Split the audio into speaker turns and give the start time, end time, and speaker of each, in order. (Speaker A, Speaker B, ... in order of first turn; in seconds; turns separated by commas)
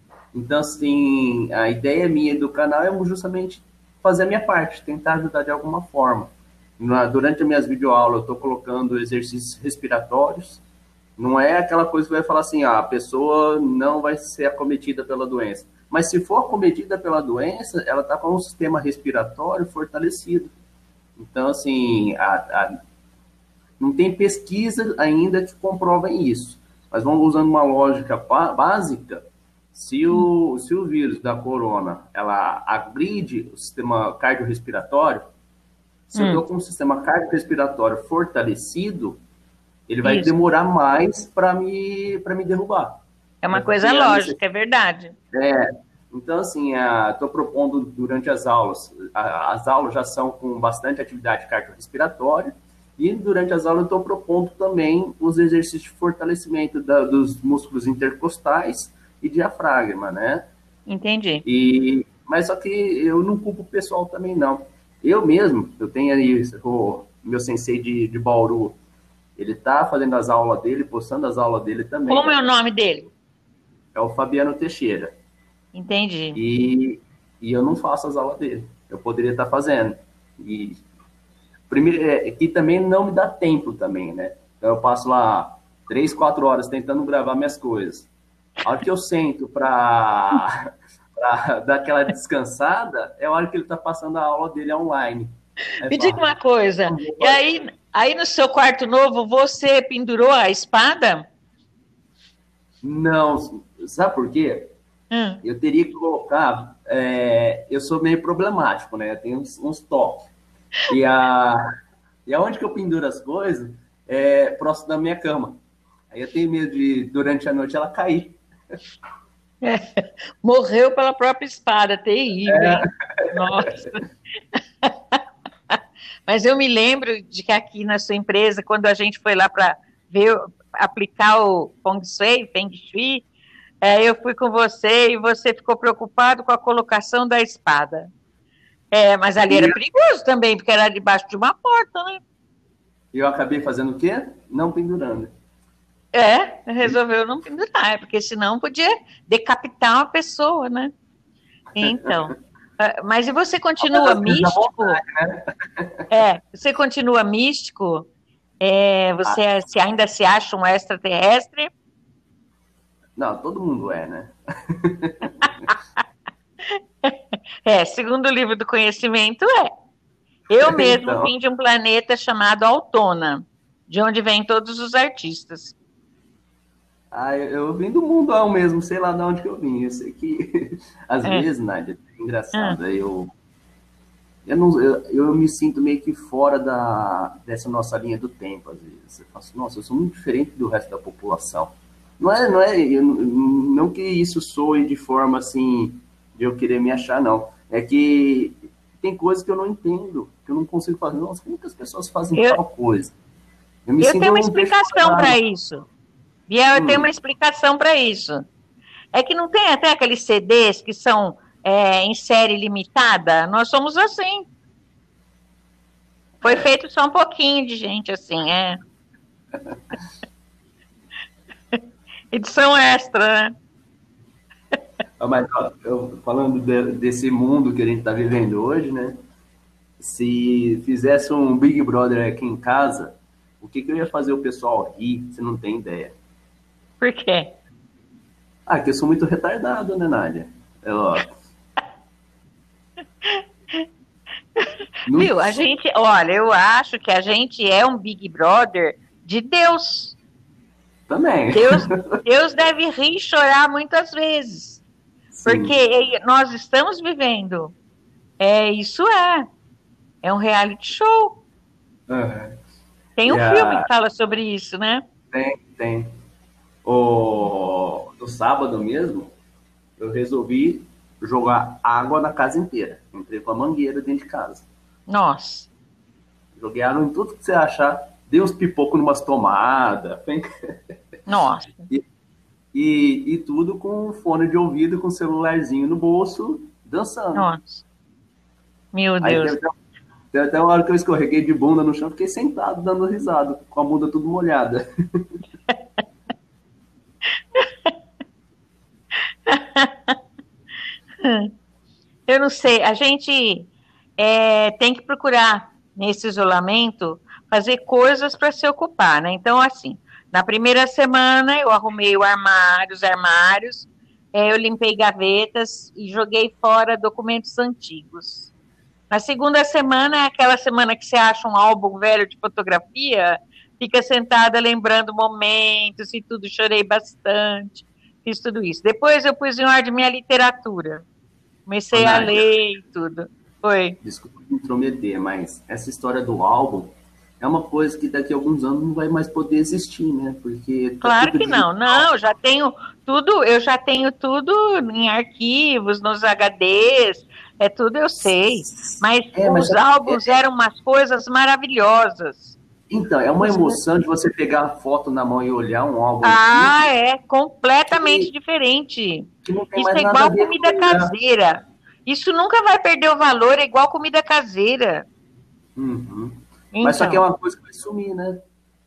Speaker A: 0.3-10.6, Speaker A: 11.2-20.5, Speaker A: 21.2-22.8, Speaker A: 23.8-35.3, Speaker A: 36.1-39.2, Speaker B: 36.1-36.4, Speaker A: 39.9-44.4, Speaker B: 40.0-40.3, Speaker B: 43.4-45.1, Speaker A: 45.3-60.5, Speaker B: 60.9-61.5, Speaker A: 61.5-68.8, Speaker A: 69.4-72.4, Speaker B: 72.1-73.1, Speaker A: 74.0-75.2, Speaker B: 75.7-76.4, Speaker A: 76.3-80.8, Speaker A: 81.7-88.1, Speaker A: 88.6-96.3, Speaker B: 95.9-101.3, Speaker A: 96.9-97.6, Speaker A: 102.8-104.7, Speaker B: 105.1-105.4, Speaker A: 105.4-110.3, Speaker A: 110.9-111.6, Speaker A: 112.3-115.6, Speaker A: 116.1-118.4, Speaker B: 119.6-124.0, Speaker A: 122.5-123.7, Speaker B: 124.8-125.2, Speaker B: 125.7-133.3, Speaker B: 133.8-138.1, Speaker B: 138.9-142.2, Speaker A: 139.5-139.8, Speaker A: 143.1-145.3, Speaker B: 146.1-150.9, Speaker B: 151.8-155.0, Speaker A: 151.8-152.1, Speaker A: 153.8-156.1, Speaker B: 156.1-158.1, Speaker B: 158.6-161.7, Speaker A: 163.2-165.7, Speaker B: 166.7-169.7, Speaker B: 170.5-175.8, Speaker A: 170.6-171.3, Speaker A: 177.1-183.3, Speaker A: 184.5-203.1, Speaker A: 203.9-205.4, Speaker B: 204.0-205.9, Speaker B: 206.5-208.4, Speaker A: 206.7-207.1, Speaker B: 209.1-214.5, Speaker A: 216.4-216.7, Speaker B: 216.4-218.8, Speaker B: 222.3-223.6, Speaker A: 225.2-229.2, Speaker A: 230.0-236.2, Speaker B: 237.0-237.6, Speaker A: 238.7-241.3, Speaker B: 243.2-243.8, Speaker B: 244.6-250.2, Speaker A: 245.1-245.6, Speaker A: 251.1-251.9, Speaker B: 251.5-254.8, Speaker A: 255.3-255.7, Speaker B: 255.4-257.7, Speaker B: 258.4-259.5, Speaker B: 260.2-261.4, Speaker A: 262.1-262.6, Speaker B: 263.2-265.0, Speaker A: 263.3-263.9, Speaker A: 265.3-266.1, Speaker A: 266.9-269.3, Speaker A: 270.0-274.7, Speaker B: 275.1-275.7, Speaker A: 276.6-280.5, Speaker B: 281.3-281.9, Speaker A: 282.7-287.5, Speaker B: 287.4-287.8, Speaker B: 288.9-289.6, Speaker A: 289.2-289.7, Speaker A: 290.3-295.3, Speaker B: 297.6-297.9, Speaker B: 299.5-300.2, Speaker B: 301.2-301.5, Speaker B: 302.3-318.5, Speaker B: 319.1-331.1, Speaker B: 331.7-334.0, Speaker A: 331.9-332.4, Speaker A: 334.0-342.1, Speaker B: 341.0-352.6, Speaker A: 348.7-350.3, Speaker A: 352.9-356.8, Speaker B: 353.4-353.8, Speaker B: 356.2-365.1, Speaker A: 357.9-358.3, Speaker A: 359.4-361.1, Speaker A: 365.8-368.4, Speaker B: 366.7-367.2